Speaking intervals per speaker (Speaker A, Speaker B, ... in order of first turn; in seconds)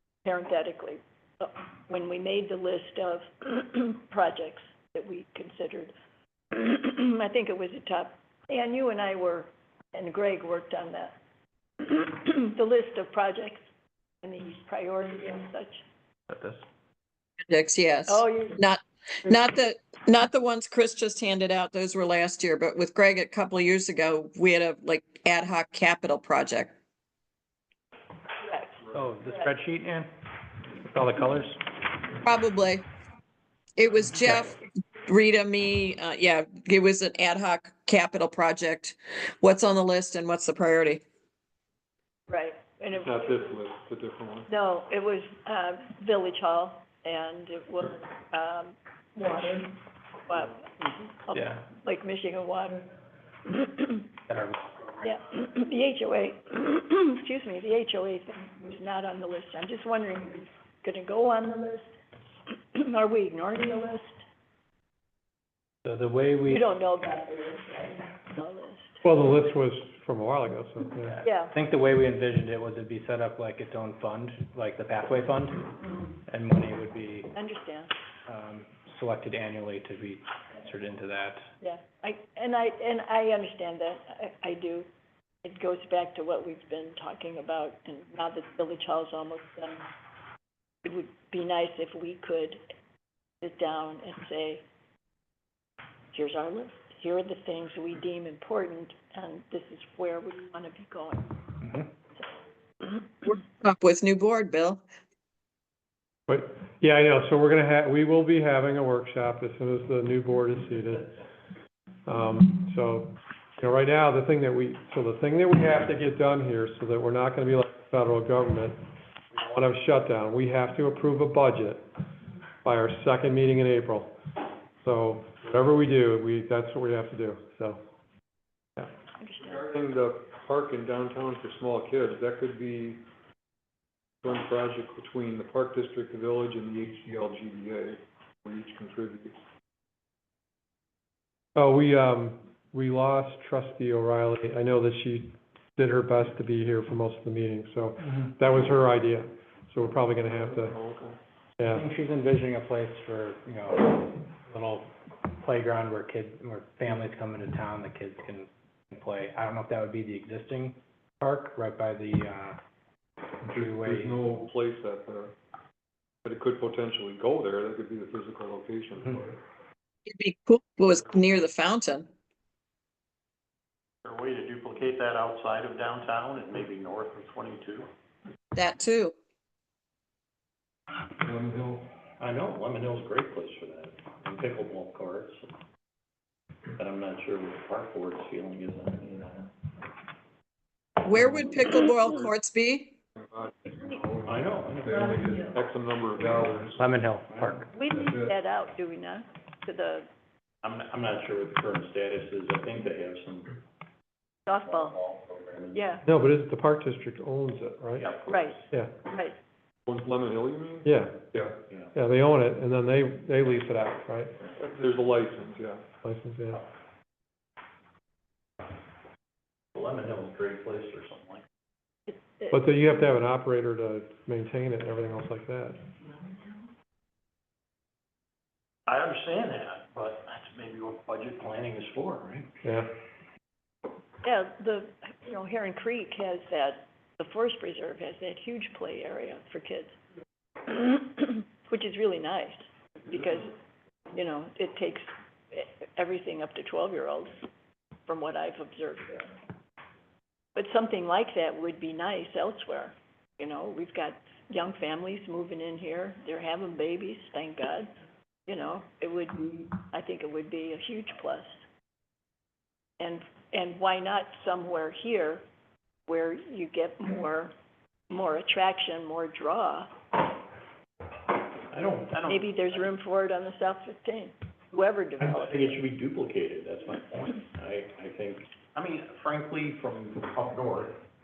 Speaker A: 0.2-5.9, 6.5-11.2, 11.8-13.7, 14.2-15.8, 18.1-18.6, 28.4-29.5, 42.3-43.4, 44.5-49.7, 50.2-52.8, 53.5-54.1, 55.0-61.9, 62.7-64.2, 66.5-69.0, 71.2-71.6, 77.3-77.9, 81.6-84.9, 85.4-89.9, 90.8-92.6, 93.4-94.6, 96.1-101.4, 129.2-129.7, 197.7-200.1, 204.5-205.0, 205.7-206.0, 208.3-209.4, 222.1-222.5, 234.2-240.0, 240.7-243.5, 244.1-247.4, 248.1-249.3, 250.5-257.9, 258.5-261.5, 263.0-265.4, 266.1-267.5, 268.1-269.9, 272.3-275.7
Speaker B: 17.5-26.7, 32.2-32.9, 33.8-41.0, 103.2-104.8, 170.1-172.1, 178.5-179.1, 191.0-192.9
Speaker C: 28.9-30.1, 30.9-31.6, 51.3-51.6, 54.3-54.6, 65.8-66.6, 71.0-75.6, 76.3-77.3, 78.3-81.5, 101.6-101.9, 151.7-162.6, 163.4-164.3, 196.8-197.7
Speaker D: 42.9-44.5, 129.5-133.0, 134.2-139.3, 150.3-151.2, 163.5-165.3, 166.2-169.4, 181.2-181.9, 193.2-196.8, 197.9-198.3, 209.8-211.5, 214.6-215.8
Speaker E: 69.0-71.2, 106.3-111.1, 112.0-118.8, 119.3-121.8, 122.6-124.1, 124.8-127.8, 141.5-150.8, 151.6-151.8, 206.0-208.0, 210.8-211.3, 211.9-214.4, 216.0-216.6, 222.5-225.8, 232.6-232.9
Speaker F: 174.0-177.9, 182.2-185.5, 186.8-189.5, 194.2-195.2, 197.3-197.6, 200.6-203.6, 204.8-205.9, 207.9-208.6, 219.7-221.4, 228.9-232.5, 271.7-272.8, 275.2-281.0